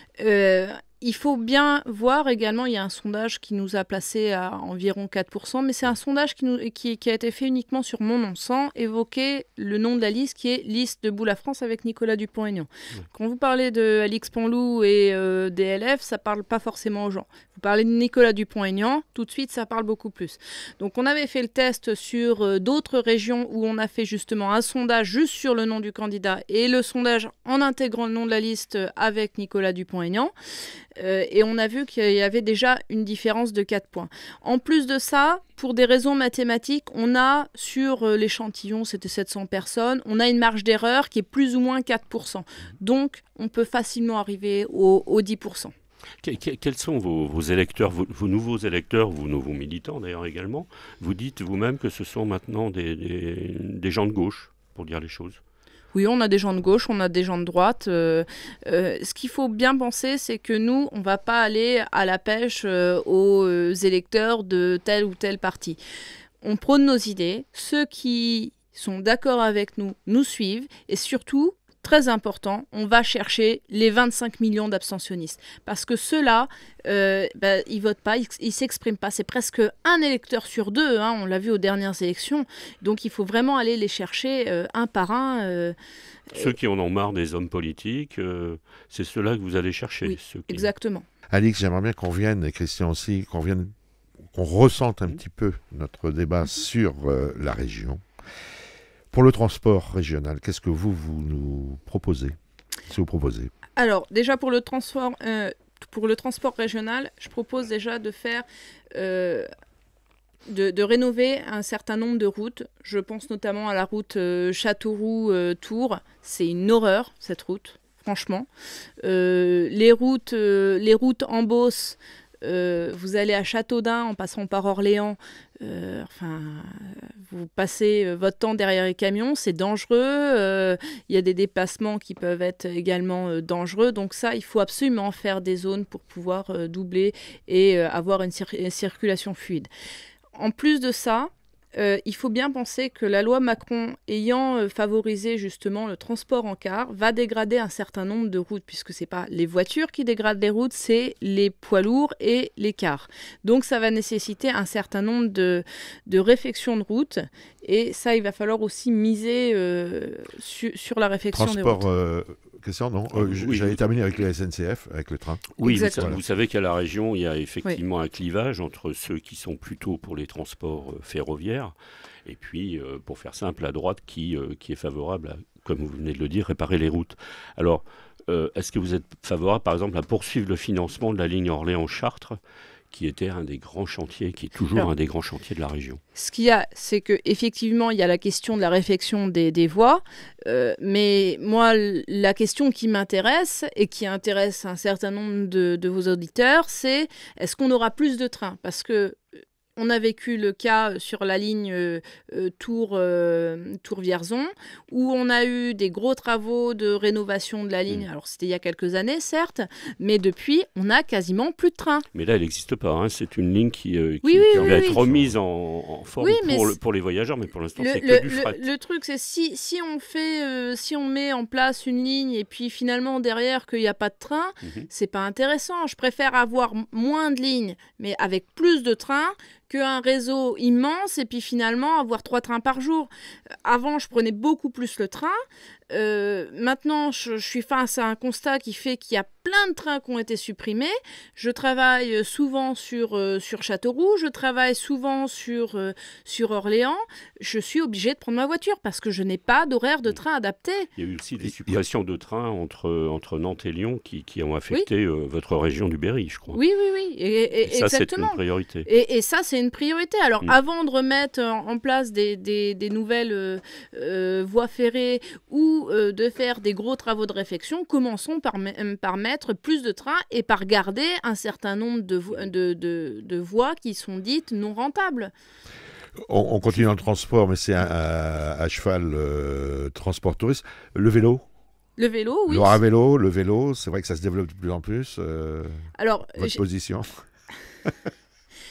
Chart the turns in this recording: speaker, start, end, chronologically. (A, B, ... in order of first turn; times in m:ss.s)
0:00.2-0:30.3 A
0:31.0-0:45.7 A
0:46.2-0:55.4 B
0:55.9-1:05.8 A
1:06.4-1:25.7 A
1:26.3-1:30.7 B
1:30.0-1:31.0 A
1:31.3-1:33.7 C
1:34.3-1:38.0 C
1:39.1-1:42.4 C
1:42.9-1:43.5 C
1:43.8-1:49.5 A
1:50.5-1:58.5 A
1:59.0-2:19.7 A
2:20.4-2:41.8 A
2:41.3-2:46.2 C
2:43.2-2:43.8 B
2:45.6-2:51.7 B
2:45.6-2:46.1 A
2:52.2-3:02.4 B
3:02.9-3:06.0 B
3:06.2-3:19.2 A
3:19.8-3:32.0 A
3:32.1-3:38.6 B
3:34.2-3:35.0 A
3:34.5-3:35.3 C
3:36.2-3:36.8 A
3:37.8-3:53.1 A
3:44.6-3:44.9 B
3:53.6-4:10.9 A
4:11.0-4:16.6 B
4:16.5-4:35.3 A
4:17.6-4:18.9 B
4:36.2-4:41.4 C
4:42.0-4:42.8 A
4:42.5-4:47.2 C
4:46.0-4:46.6 A